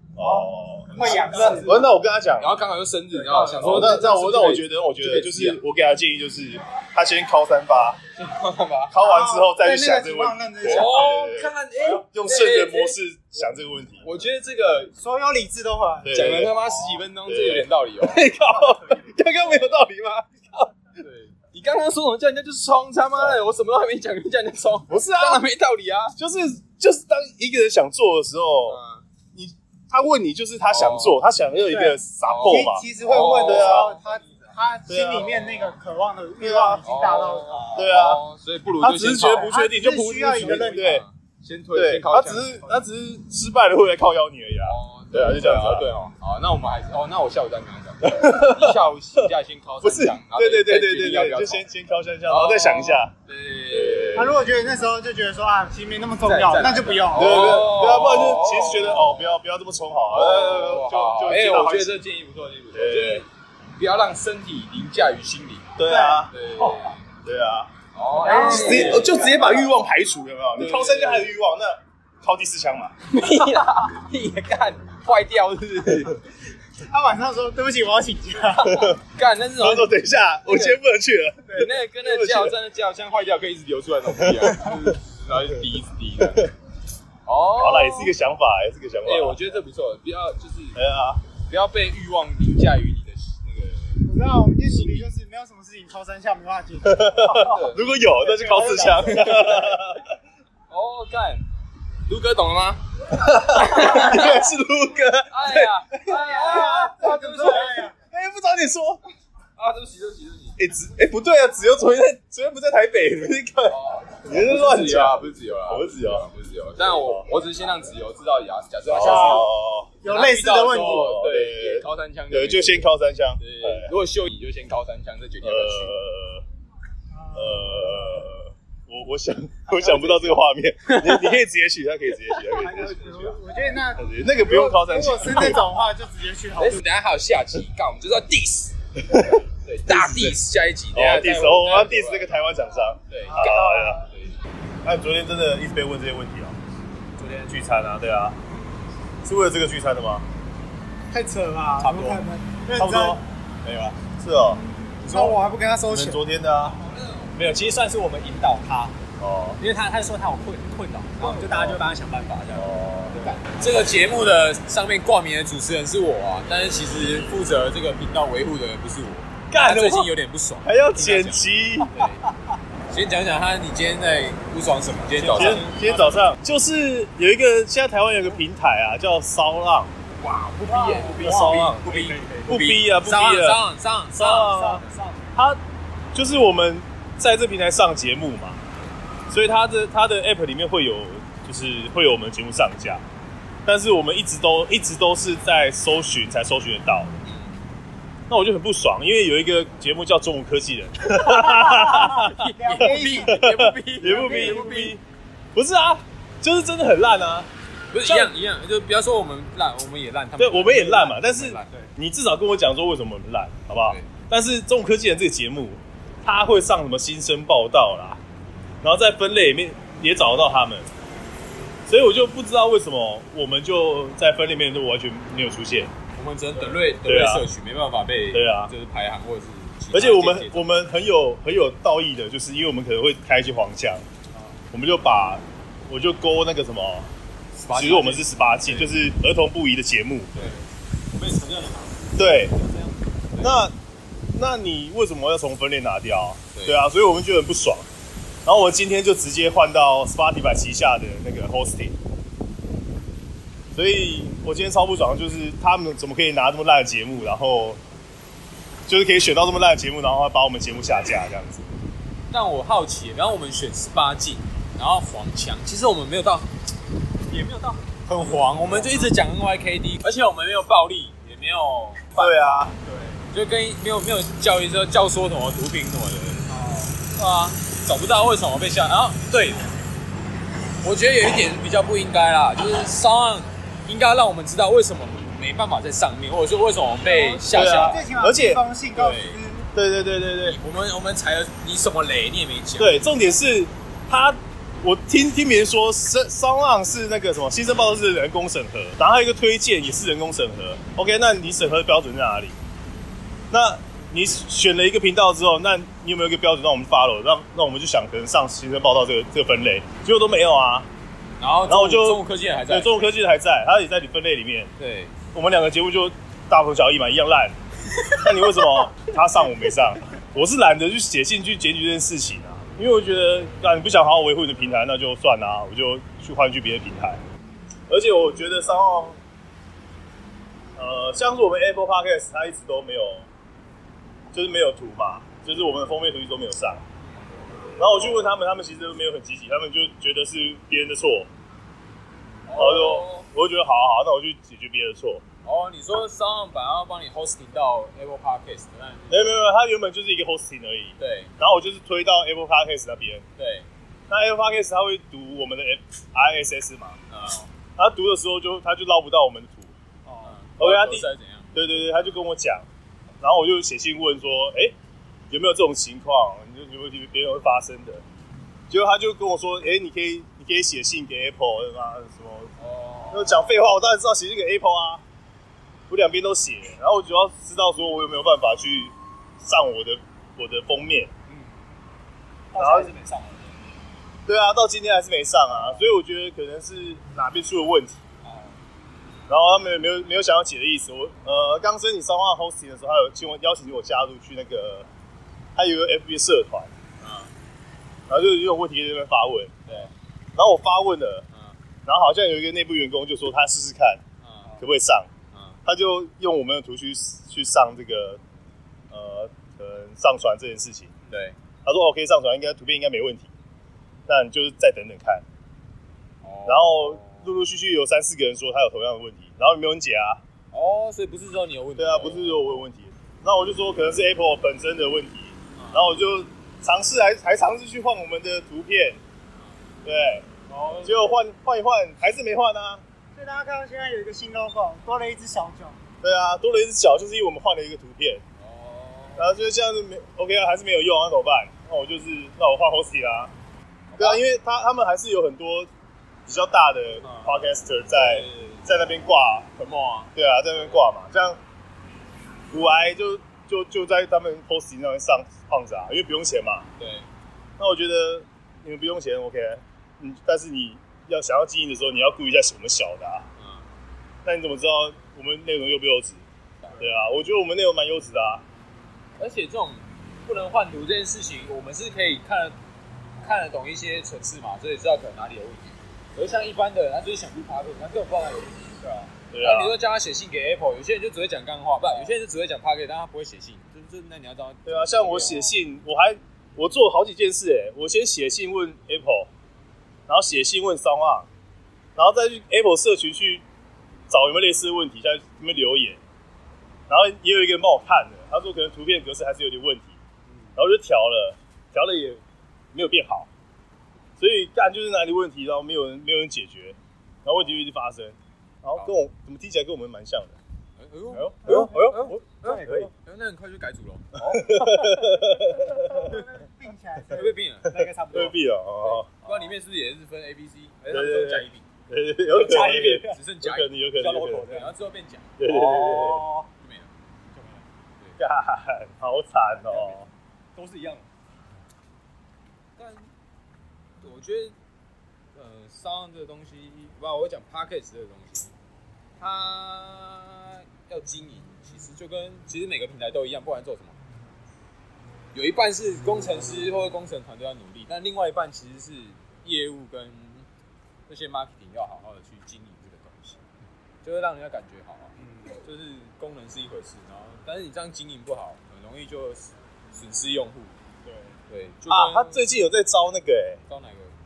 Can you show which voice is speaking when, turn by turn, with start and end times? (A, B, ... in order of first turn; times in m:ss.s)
0:00.2-0:02.6 A
0:00.2-0:01.8 B
0:01.0-0:01.8 C
0:02.4-0:05.6 C
0:03.5-0:08.0 A
0:08.2-0:08.9 C
0:08.9-0:14.1 A
0:09.0-0:11.1 B
0:10.6-0:13.0 C
0:14.0-0:14.9 C
0:15.0-0:16.3 B
0:16.0-0:16.5 A
0:16.1-0:18.2 C
0:17.2-0:20.9 A
0:19.4-0:19.7 C
0:21.0-0:26.2 C
0:24.9-0:25.4 A
0:26.2-0:28.8 A
0:28.6-0:29.0 C
0:29.3-0:32.9 A
0:30.7-0:31.2 C
0:31.7-0:37.7 B
0:32.2-0:33.9 C
0:33.4-0:34.0 A
0:33.8-0:34.4 D
0:34.9-0:35.3 A
0:35.2-0:35.7 C
0:36.4-0:36.8 A
0:36.8-0:39.5 C
0:37.4-0:38.0 D
0:37.7-0:38.2 A
0:38.8-0:41.0 A
0:39.2-0:41.0 B
0:40.3-0:42.7 C
0:41.7-0:45.9 A
0:44.6-0:51.6 C
0:48.0-0:49.3 A
0:49.8-0:53.1 A
0:52.2-0:54.4 C
0:53.7-0:54.4 A
0:54.1-0:57.7 B
0:56.2-0:59.4 C
0:57.1-1:02.0 A
1:00.1-1:05.7 C
1:02.7-1:03.2 A
1:05.8-1:06.3 A
1:05.9-1:06.3 B
1:06.3-1:07.0 C
1:07.2-1:07.7 A
1:07.9-1:09.7 C
1:08.2-1:09.2 B
1:08.2-1:12.9 A
1:10.6-1:11.3 C
1:13.1-1:16.2 C
1:16.8-1:18.9 B
1:18.6-1:19.0 A
1:19.0-1:20.8 C
1:19.6-1:22.5 A
1:21.5-1:26.5 C
1:24.2-1:24.8 A
1:26.2-1:26.5 A
1:27.2-1:28.1 C
1:27.6-1:29.4 A
1:29.0-1:30.8 C
1:30.7-1:31.2 A
1:31.3-1:34.0 C
1:34.0-1:37.6 B
1:34.7-1:35.0 A
1:36.8-1:40.0 A
1:37.4-1:37.9 C
1:38.2-1:39.6 B
1:39.0-1:39.8 C
1:40.7-1:41.4 C
1:42.1-1:42.9 C
1:43.1-1:46.2 A
1:43.4-1:44.4 C
1:45.3-1:47.9 C
1:46.1-1:47.9 B
1:47.4-1:49.0 A
1:49.6-1:50.6 C
1:50.6-1:56.3 A
1:53.6-1:59.5 C
1:58.9-2:03.9 A
1:58.9-1:59.5 B
2:00.0-2:01.2 B
2:00.0-2:05.9 C
2:05.4-2:06.4 A
2:07.1-2:08.2 B
2:07.3-2:13.4 A
2:09.8-2:11.4 C
2:12.3-2:13.1 C
2:12.5-2:16.8 B
2:13.9-2:15.6 A
2:16.6-2:18.7 C
2:19.0-2:20.4 A
2:19.6-2:22.3 C
2:20.9-2:24.0 A
2:23.1-2:24.3 C
2:23.3-2:24.0 B
2:24.8-2:26.6 A
2:27.2-2:27.6 C
2:27.5-2:28.4 A
2:29.2-2:30.2 A
2:31.1-2:33.2 B
2:31.8-2:32.2 D
2:32.7-2:33.2 A
2:33.6-2:33.9 C
2:34.2-2:35.4 A
2:34.6-2:36.2 B
2:35.9-2:36.8 A
2:36.7-2:37.4 C
2:37.3-2:38.9 D
2:39.2-2:39.6 A
2:39.6-2:43.4 D
2:41.2-2:41.6 B
2:42.5-2:43.2 A
2:43.2-2:52.3 C
2:49.5-2:50.1 A
2:50.6-2:52.0 A
2:52.9-2:55.7 C
2:55.1-2:56.2 D
2:55.3-2:59.9 A
3:00.2-3:04.8 C
3:00.6-3:02.5 D
3:01.1-3:01.9 A
3:02.5-3:03.6 A
3:04.1-3:05.3 D
3:04.2-3:05.6 A
3:06.1-3:08.6 A
3:09.3-3:13.0 A
3:13.6-3:17.2 A
3:17.3-3:17.5 C
3:18.3-3:25.0 A
3:21.3-3:23.4 B
3:21.8-3:25.0 C
3:24.0-3:24.9 B
3:25.5-3:27.5 A
3:27.9-3:31.8 C
3:28.0-3:28.3 A
3:30.4-3:38.2 A
3:38.8-3:40.9 A
3:41.9-3:45.9 A
3:46.1-3:50.8 C
3:47.0-3:47.5 A
3:48.3-3:48.7 A
3:49.9-3:54.0 A
3:54.7-3:57.1 A
3:57.6-3:58.9 C
3:57.7-4:00.3 A
4:00.3-4:00.6 C
4:01.2-4:03.0 D
4:02.2-4:02.5 A
4:03.3-4:03.6 C
4:03.4-4:03.7 A
4:04.3-4:07.8 A
4:08.4-4:11.9 A
4:13.7-4:17.8 A
4:18.9-4:21.7 A
4:22.3-4:26.5 C
4:27.3-4:29.1 D
4:28.1-4:32.4 C
4:32.1-4:32.7 A
4:32.8-4:33.2 D
4:33.3-4:36.5 C
4:36.5-4:37.0 D
4:37.0-4:39.6 C
4:40.8-4:48.0 C
4:47.0-4:49.7 B
4:47.5-4:48.6 A
4:48.9-4:49.4 C
4:49.7-4:50.6 A
4:50.4-4:53.0 C
4:52.8-5:02.5 A
5:03.5-5:10.9 A
5:11.4-5:13.0 C
5:11.6-5:14.7 A
5:14.8-5:15.1 C
5:15.3-5:17.6 A
5:18.1-5:18.8 C
5:18.2-5:27.2 A
5:27.9-5:29.2 A
5:30.8-5:33.2 A
5:34.3-5:36.8 A
5:37.8-5:41.3 A
5:42.4-5:43.3 C
5:42.6-5:45.2 A
5:45.4-5:49.4 C
5:49.1-5:53.2 A
5:51.0-5:51.3 C
5:53.4-5:53.7 C
5:54.1-5:57.0 A
5:57.1-5:57.5 C
5:57.8-5:59.7 A
6:00.0-6:00.4 D
6:00.2-6:01.6 C
6:00.6-6:02.6 A
6:03.2-6:04.7 A
6:05.3-6:08.0 A
6:08.7-6:12.5 A
6:12.6-6:13.5 C
6:13.1-6:15.0 A
6:15.9-6:21.1 A
6:22.5-6:23.5 D
6:22.5-6:22.9 A
6:24.2-6:28.0 A
6:28.2-6:28.6 D
6:29.3-6:34.9 A
6:35.6-6:36.7 A
6:37.0-6:37.3 C
6:38.1-6:41.2 A
6:41.8-6:44.0 A
6:44.2-6:44.5 C
6:44.6-6:45.1 A
6:45.3-6:45.6 C
6:45.6-6:48.2 A
6:48.9-6:50.9 A
6:51.1-6:51.3 C
6:51.6-6:53.3 A
6:54.1-6:55.2 A
6:56.2-6:57.3 C
6:56.4-7:00.2 A
7:00.5-7:02.6 C
7:01.8-7:09.0 A
7:05.6-7:05.9 C
7:09.8-7:10.3 A
7:10.5-7:11.1 C
7:10.8-7:12.8 A
7:13.1-7:15.8 B
7:16.0-7:18.2 A
7:18.4-7:19.3 C
7:19.2-7:23.3 A
7:23.9-7:24.2 C
7:24.0-7:25.7 A
7:26.2-7:29.5 A
7:27.0-7:28.7 C
7:29.6-7:30.8 C
7:30.2-7:31.4 A
7:32.5-7:36.6 A
7:36.8-7:37.1 C
7:37.6-7:43.2 A
7:43.4-7:43.7 C
7:44.2-7:46.2 A
7:46.8-7:48.4 A
7:49.2-7:52.6 C
7:53.2-7:58.8 C
7:58.8-7:59.1 D
7:59.3-7:59.8 A
7:59.4-8:05.6 C
8:04.6-8:09.3 A
8:10.1-8:11.3 A
8:12.0-8:13.4 A
8:14.1-8:16.0 A
8:16.9-8:20.0 A
8:20.6-8:22.2 A
8:22.7-8:23.3 A
8:24.2-8:30.4 A
8:30.8-8:34.4 C
8:31.1-8:32.2 A
8:31.4-8:32.9 D
8:34.2-8:36.2 A
8:35.8-8:37.3 B
8:37.1-8:37.8 C
8:37.6-8:38.4 D
8:38.1-8:39.2 A
8:38.8-8:41.6 C
8:40.9-8:44.5 A
8:42.3-8:43.2 D
8:42.4-8:43.7 C
8:43.9-8:44.7 D
8:44.5-8:45.4 C
8:45.4-8:46.3 A
8:45.4-8:46.5 D
8:46.6-8:46.9 C
8:47.3-8:47.6 D
8:48.2-8:50.0 A
8:49.7-8:50.0 D
8:50.5-8:51.0 D
8:52.8-8:53.1 C
8:54.0-8:54.5 C
8:55.3-8:58.5 C
8:59.2-9:04.0 C
9:05.3-9:10.5 C
9:11.1-9:13.4 C
9:14.0-9:20.7 C
9:15.2-9:15.6 D
9:21.0-9:21.4 D
9:21.5-9:22.6 C
9:21.9-9:23.6 A
9:23.7-9:24.1 C